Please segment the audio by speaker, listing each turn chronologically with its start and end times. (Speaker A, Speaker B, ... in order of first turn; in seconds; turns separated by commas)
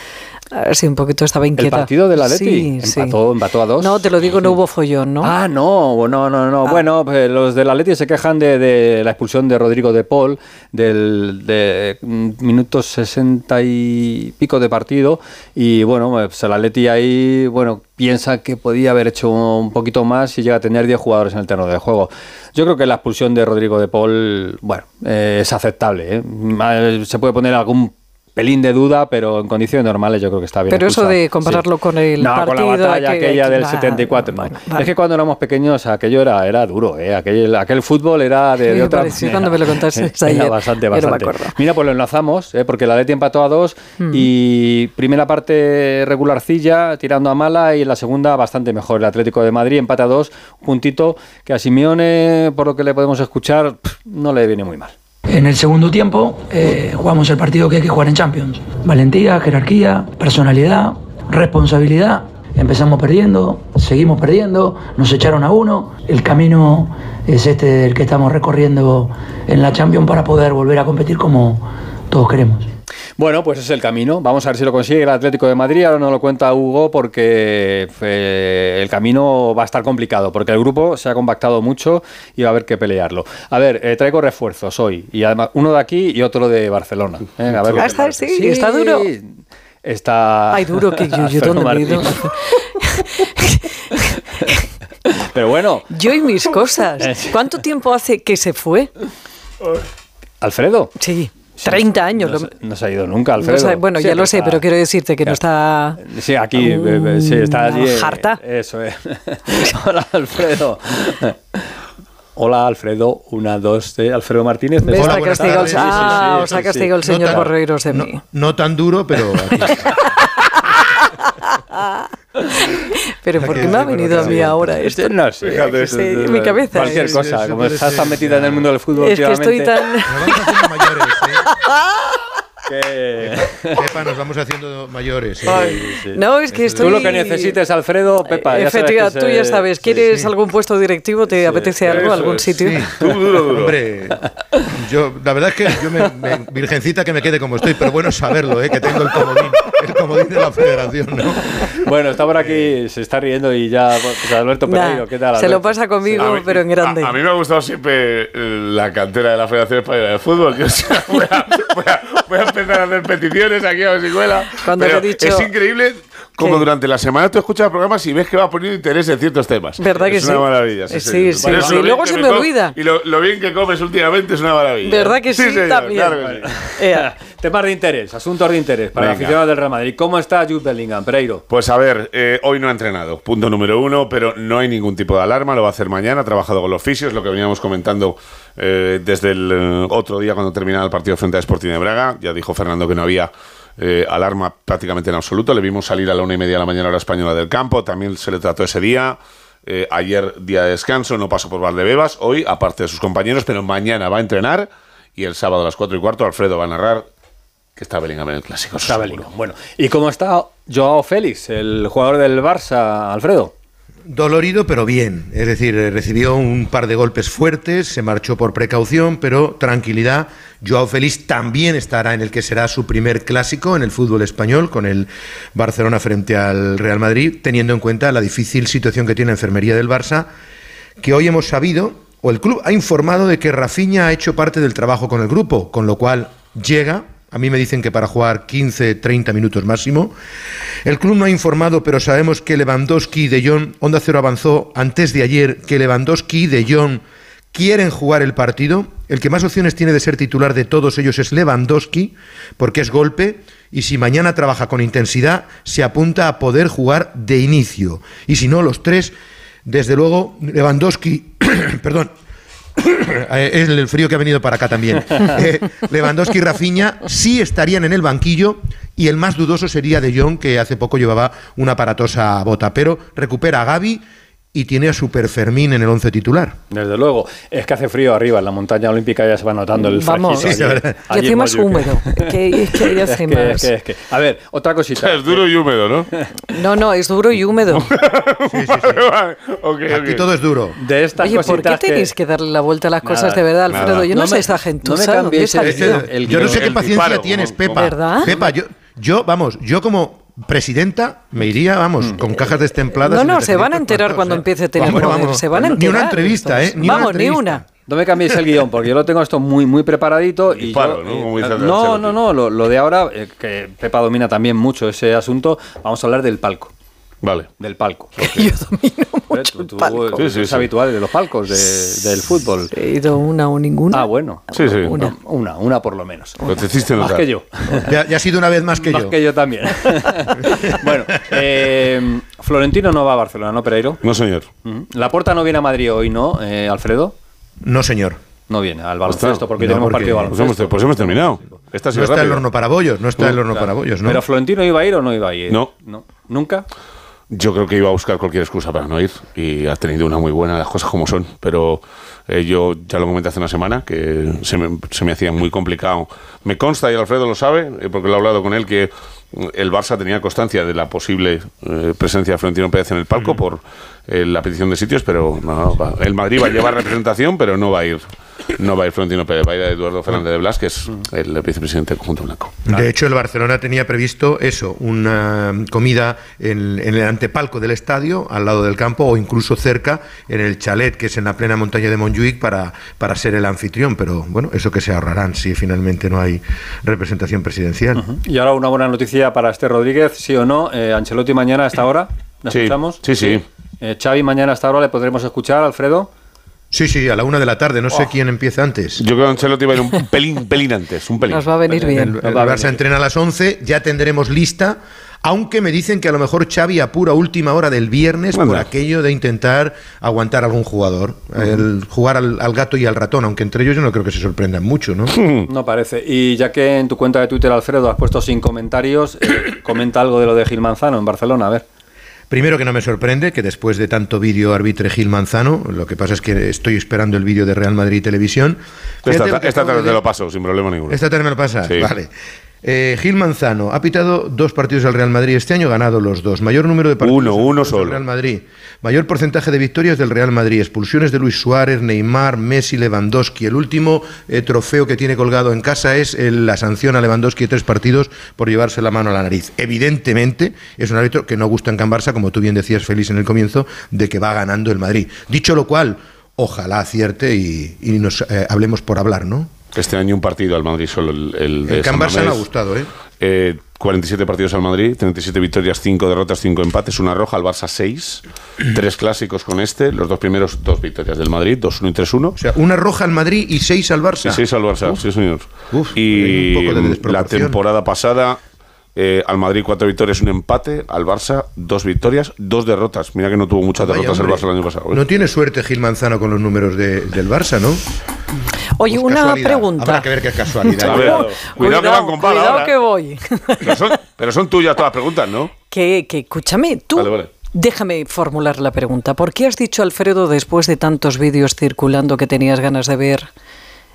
Speaker A: 0.5-3.2, Speaker B: 1.6-4.5, Speaker A: 3.8-5.3, Speaker B: 5.2-31.7, Speaker A: 30.7-34.9, Speaker B: 32.2-54.9, Speaker A: 38.7-41.5, Speaker C: 55.3-72.7, Speaker B: 73.2-89.3, Speaker A: 87.8-89.1, Speaker B: 89.8-92.3, Speaker A: 90.5-94.6, Speaker B: 95.1-96.0, Speaker A: 95.9-98.9, Speaker B: 97.0-97.6, Speaker B: 100.4-100.9, Speaker A: 101.0-102.5, Speaker B: 101.6-104.6, Speaker A: 103.4-106.0, Speaker B: 106.0-111.8, Speaker A: 106.6-108.4, Speaker B: 112.3-117.5, Speaker A: 114.8-118.2, Speaker D: 114.9-119.9, Speaker A: 119.7-120.5, Speaker A: 121.0-122.0, Speaker A: 122.6-125.1, Speaker D: 123.4-124.8, Speaker B: 123.4-129.7, Speaker E: 125.5-126.0, Speaker A: 125.7-127.2, Speaker D: 126.7-128.7, Speaker A: 129.0-130.8, Speaker D: 130.1-131.5, Speaker A: 131.4-132.2, Speaker B: 132.7-133.8, Speaker D: 133.2-135.9, Speaker B: 135.4-136.2, Speaker A: 136.1-137.6, Speaker D: 136.5-137.0, Speaker B: 136.7-140.1, Speaker A: 138.2-142.8, Speaker B: 141.3-142.3, Speaker E: 142.0-142.4, Speaker D: 142.5-142.9, Speaker E: 143.0-143.7, Speaker D: 143.5-151.7, Speaker B: 151.8-156.4, Speaker A: 154.7-157.2, Speaker E: 156.2-176.5, Speaker A: 164.6-165.5, Speaker A: 166.4-166.7, Speaker A: 169.8-172.7, Speaker B: 171.4-171.9, Speaker A: 174.8-176.2, Speaker B: 176.2-181.4, Speaker A: 176.8-177.1, Speaker E: 179.0-179.4, Speaker E: 181.5-207.1, Speaker E: 207.8-209.3, Speaker B: 208.8-213.5, Speaker D: 214.1-230.3, Speaker D: 231.0-240.2, Speaker D: 240.8-259.1, Speaker D: 259.6-262.1, Speaker D: 262.8-274.0, Speaker D: 274.5-276.6, Speaker B: 276.7-285.5, Speaker A: 279.8-280.5, Speaker D: 280.4-280.9, Speaker A: 281.1-283.7, Speaker E: 284.9-286.1, Speaker A: 286.5-287.9, Speaker E: 287.8-290.2, Speaker D: 288.5-289.0, Speaker D: 289.9-290.8, Speaker B: 290.8-292.1, Speaker A: 291.2-296.0, Speaker B: 293.0-297.0, Speaker E: 293.7-294.1, Speaker D: 295.6-307.6, Speaker E: 296.5-298.0, Speaker A: 297.7-298.3, Speaker B: 302.0-302.3, Speaker A: 303.0-307.6, Speaker B: 304.8-305.2, Speaker B: 307.9-316.7, Speaker E: 310.6-312.2, Speaker E: 317.2-317.5, Speaker B: 317.6-318.4, Speaker A: 318.2-320.2, Speaker B: 319.3-322.7, Speaker E: 320.2-320.7, Speaker A: 322.7-325.1, Speaker B: 323.9-328.0, Speaker E: 324.5-325.0, Speaker E: 326.5-327.2, Speaker D: 327.9-329.2, Speaker B: 328.8-334.0, Speaker E: 334.0-334.5, Speaker B: 334.6-337.1, Speaker D: 337.6-338.2, Speaker B: 338.5-341.2, Speaker E: 339.0-339.4, Speaker D: 339.6-340.3, Speaker E: 340.3-342.4, Speaker D: 341.9-344.2, Speaker B: 343.2-346.6, Speaker E: 347.3-372.6, Speaker D: 372.7-388.0, Speaker B: 388.0-396.1, Speaker E: 392.5-393.4, Speaker D: 396.7-399.0, Speaker E: 399.0-401.5, Speaker A: 401.3-402.2, Speaker B: 401.7-402.8, Speaker D: 401.8-415.2, Speaker E: 408.3-408.7, Speaker E: 415.1-415.5, Speaker B: 415.5-421.6, Speaker D: 422.3-430.0, Speaker E: 429.0-431.0, Speaker D: 430.9-432.1, Speaker E: 431.6-431.9, Speaker D: 432.6-459.5, Speaker E: 437.0-438.0, Speaker E: 459.7-462.4, Speaker D: 461.7-462.9, Speaker E: 463.2-472.4, Speaker D: 472.4-474.4, Speaker E: 474.2-478.4, Speaker D: 475.7-477.6, Speaker E: 478.9-485.0, Speaker D: 483.8-487.8, Speaker A: 488.8-490.1, Speaker D: 488.9-491.3, Speaker A: 490.6-493.9, Speaker E: 490.9-492.7, Speaker B: 490.9-491.5, Speaker E: 493.6-495.5, Speaker A: 495.7-503.3, Speaker E: 496.9-497.3